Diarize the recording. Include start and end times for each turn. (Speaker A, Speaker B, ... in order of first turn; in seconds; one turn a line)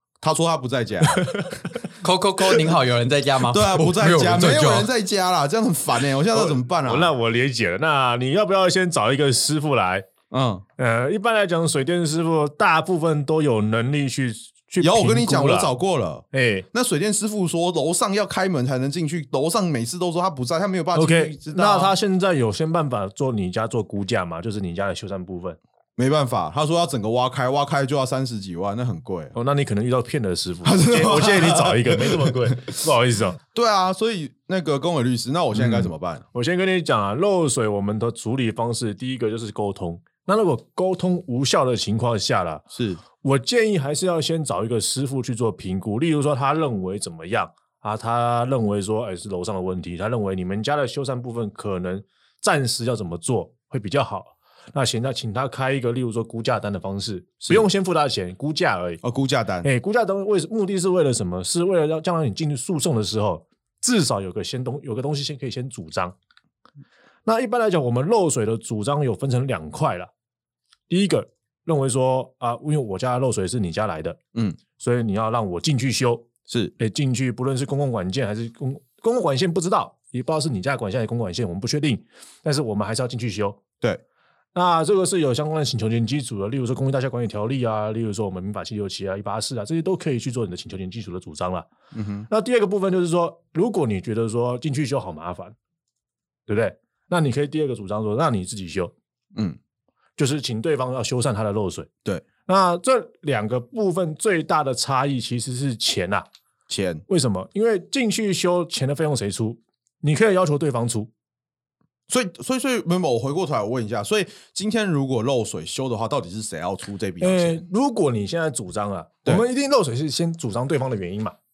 Speaker A: 0.2-1.5
Speaker B: 1.1-1.8
Speaker C: 2.0-4.9
Speaker A: 3.4-7.1
Speaker B: 6.3-10.1
Speaker A: 10.3-10.6
Speaker B: 10.8-15.7
Speaker A: 14.8-21.9
Speaker B: 16.3-16.7
Speaker B: 20.9-25.6
Speaker A: 26.0-29.3
Speaker B: 29.3-33.4
Speaker A: 30.6-32.7
Speaker A: 33.5-36.2
Speaker B: 35.5-42.6
Speaker A: 42.7-43.0
Speaker B: 43.2-59.0
Speaker A: 59.0-59.7
Speaker B: 59.6-66.1
Speaker B: 67.2-70.1
Speaker B: 70.9-74.2
Speaker A: 74.3-74.6
Speaker B: 74.8-83.6
Speaker A: 76.5-76.7
Speaker B: 84.5-91.7
Speaker A: 91.9-92.3
Speaker B: 92.3-95.5
Speaker B: 96.5-98.9
Speaker B: 100.2-101.9
Speaker B: 102.5-106.2
Speaker A: 106.7-107.0
Speaker B: 107.1-111.1
Speaker A: 112.1-117.6
Speaker B: 117.2-121.3